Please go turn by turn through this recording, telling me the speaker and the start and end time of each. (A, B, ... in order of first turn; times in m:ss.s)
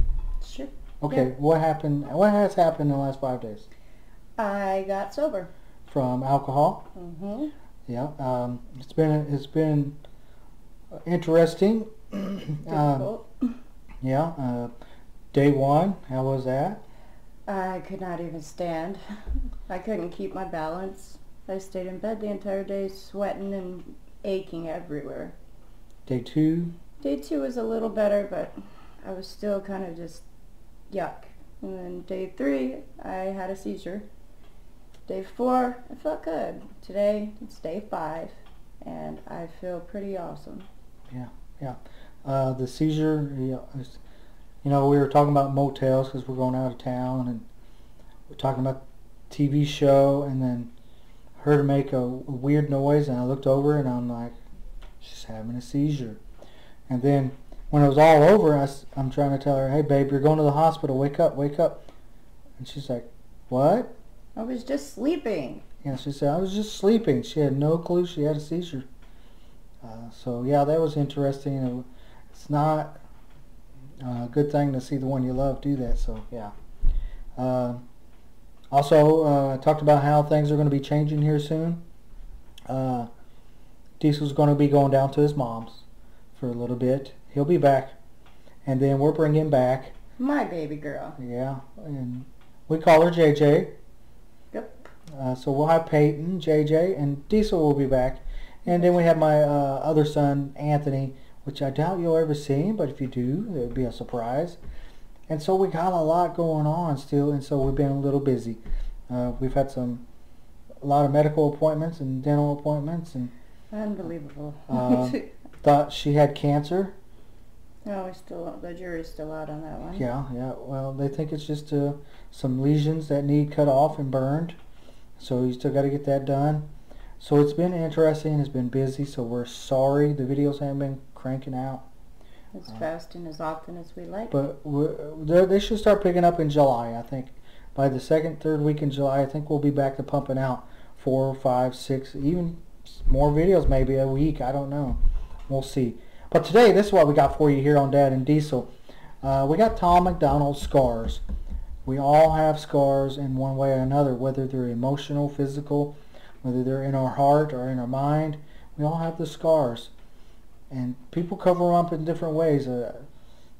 0:00.4-0:01.3 A
0:01.0-0:03.7 B
0:04.4-0:05.5 A
0:05.9-0:06.9 B
0:06.9-0:07.5 A
0:07.9-0:10.0 B
0:10.9-0:13.1 B
0:12.7-0:13.6 A
0:14.0-0:14.7 B
0:15.3-0:16.8 B
0:17.4-0:19.0 A
0:19.7-0:25.3 A
0:26.0-0:26.7 B
0:27.0-0:30.2 A
0:30.9-0:34.0 A
0:35.1-0:40.7 A
0:41.1-0:44.0 B
0:44.6-0:47.5 B
0:48.3-0:50.7 B
0:51.4-0:54.3 B
0:55.0-0:56.2 B
0:56.9-1:01.9 B
1:02.6-1:04.0 B
1:04.4-1:05.6 A
1:05.8-1:08.8 B
1:09.8-1:13.0 B
1:14.0-1:16.5 B
1:17.4-1:17.8 B
1:18.7-1:21.8 B
1:22.7-1:23.1 B
1:24.0-1:25.8 B
1:26.4-1:28.0 B
1:28.6-1:29.9 B
1:30.2-1:31.2 A
1:31.2-1:33.7 B
1:34.5-1:34.9 A
1:35.1-1:44.6 B
1:38.7-1:39.0 A
1:45.3-1:50.0 B
1:50.8-1:53.3 B
1:53.7-1:55.3 A
1:54.7-1:57.0 B
1:57.8-2:00.1 A
1:59.9-2:04.6 B
2:05.2-2:06.7 B
2:07.2-2:11.8 B
2:12.5-2:14.4 A
2:14.3-2:28.7 B
2:29.2-2:31.2 B
2:31.8-2:39.9 B
2:40.7-2:43.1 B